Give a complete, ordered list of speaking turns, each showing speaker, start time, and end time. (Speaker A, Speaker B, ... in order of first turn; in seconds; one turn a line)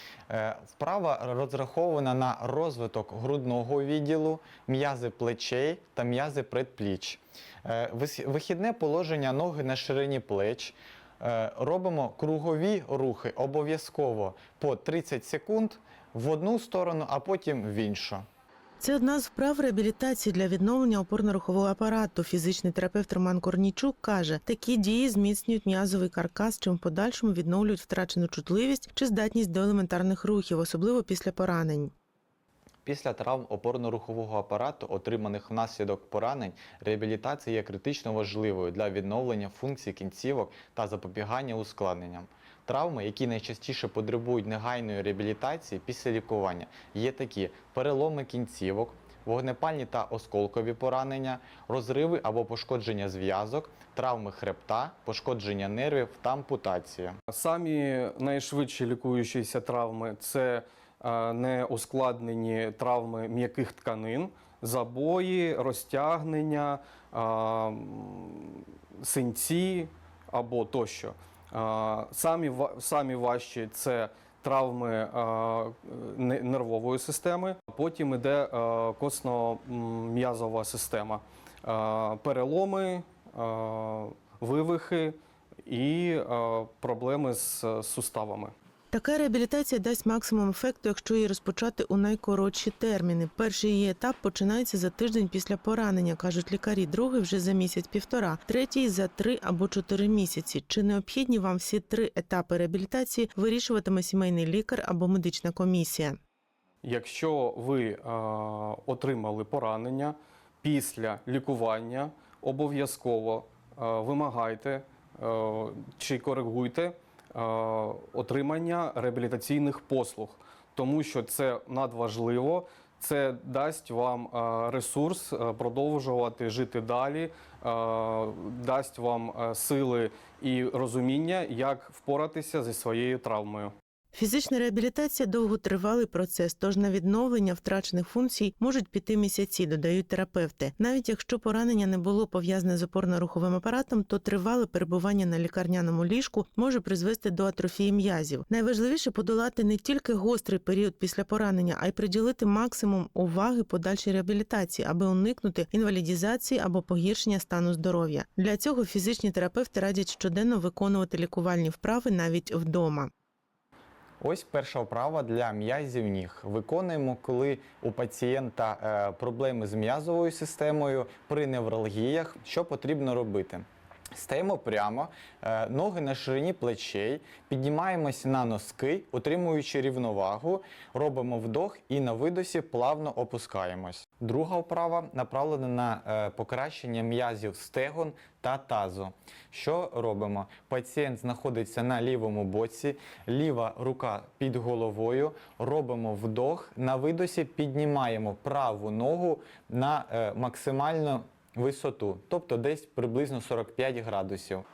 Speaker A: 0.3-18.2
Speaker B: 18.8-31.9
Speaker A: 32.8-57.1
Speaker C: 57.3-88.5
Speaker B: 88.9-106.2
Speaker C: 106.8-133.7
Speaker B: 134.1-163.1
Speaker A: 164.2-204.6